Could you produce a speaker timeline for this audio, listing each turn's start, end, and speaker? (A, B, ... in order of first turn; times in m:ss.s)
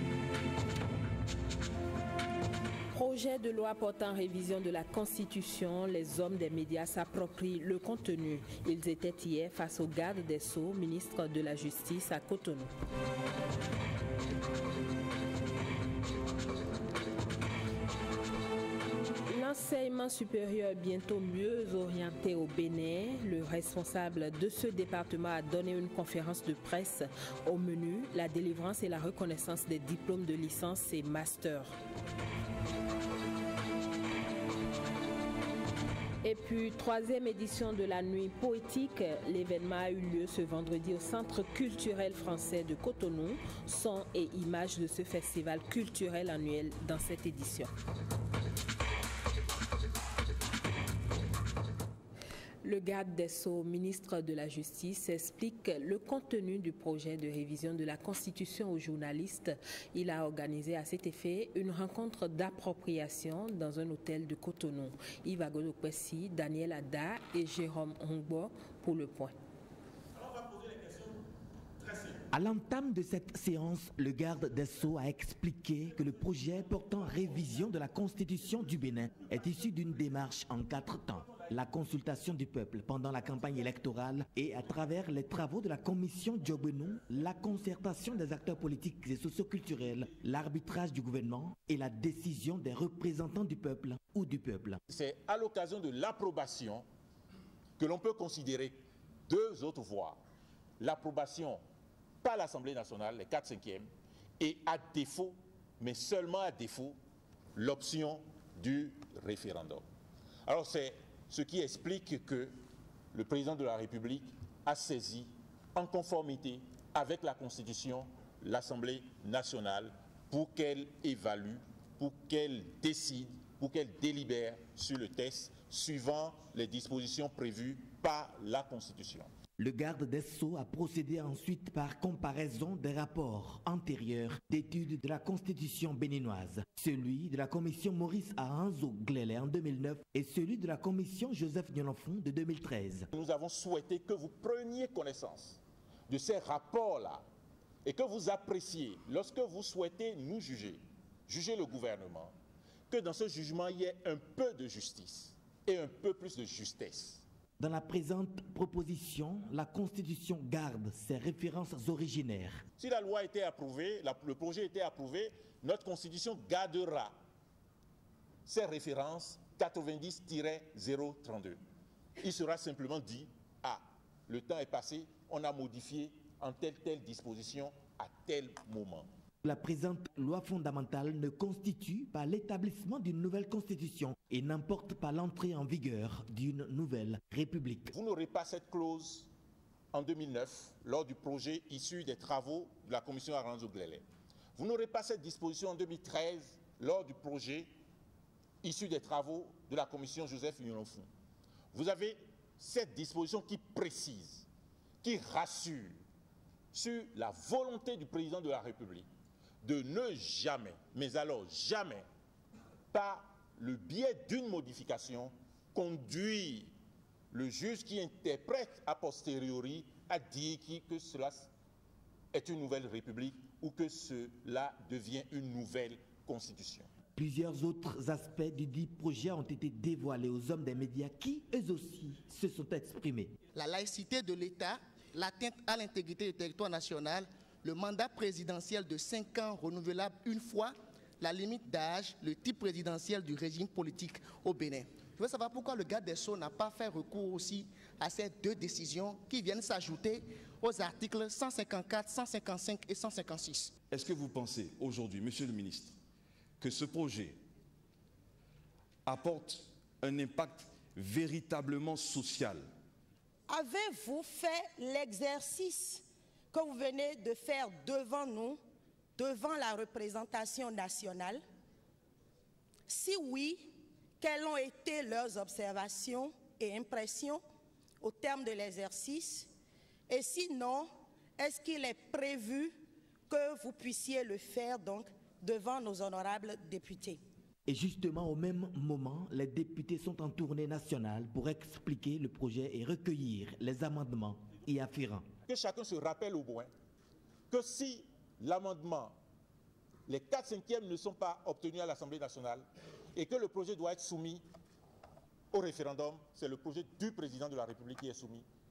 0:02.9-0:12.7 A
0:19.3-0:31.7 A
0:36.2-0:47.7 A
0:52.6-1:09.3 A
1:12.3-1:34.8 B
1:34.9-1:36.8 C
1:37.8-1:40.2 C
1:40.8-1:41.6 C
1:42.2-1:47.0 C
1:47.6-1:49.8 C
1:50.4-1:52.5 C
1:53.1-2:09.3 C
2:09.6-2:23.1 B
2:23.1-2:27.2 C
2:27.8-2:32.3 C
2:32.9-2:37.2 C
2:37.6-2:42.6 B
2:42.8-2:47.2 C
2:48.4-2:51.6 C
2:52.2-2:59.1 C
2:59.4-3:07.9 B
3:07.9-3:09.3 C
3:09.9-3:14.0 C
3:14.6-3:17.7 C
3:18.6-3:21.1 C
3:21.7-3:24.4 C
3:25.0-3:26.0 C
3:26.7-3:29.1 C
3:29.6-3:32.0 C
3:32.9-3:36.7 C
3:37.3-3:41.5 C
3:42.3-3:46.9 C
3:47.2-3:53.4 B
3:53.5-4:13.7 D
4:13.9-4:15.9 E
4:16.6-4:17.4 E
4:19.0-4:22.7 E
4:23.5-4:28.6 F
4:29.2-4:31.4 F
4:32.9-4:37.4 F
4:38.0-4:39.5 F
4:40.1-4:42.8 F
4:43.3-4:47.2 F
4:47.6-4:55.3 B
4:55.5-4:56.7 C
4:57.5-4:59.2 C
5:00.1-5:04.4 C
5:05.5-5:08.4 C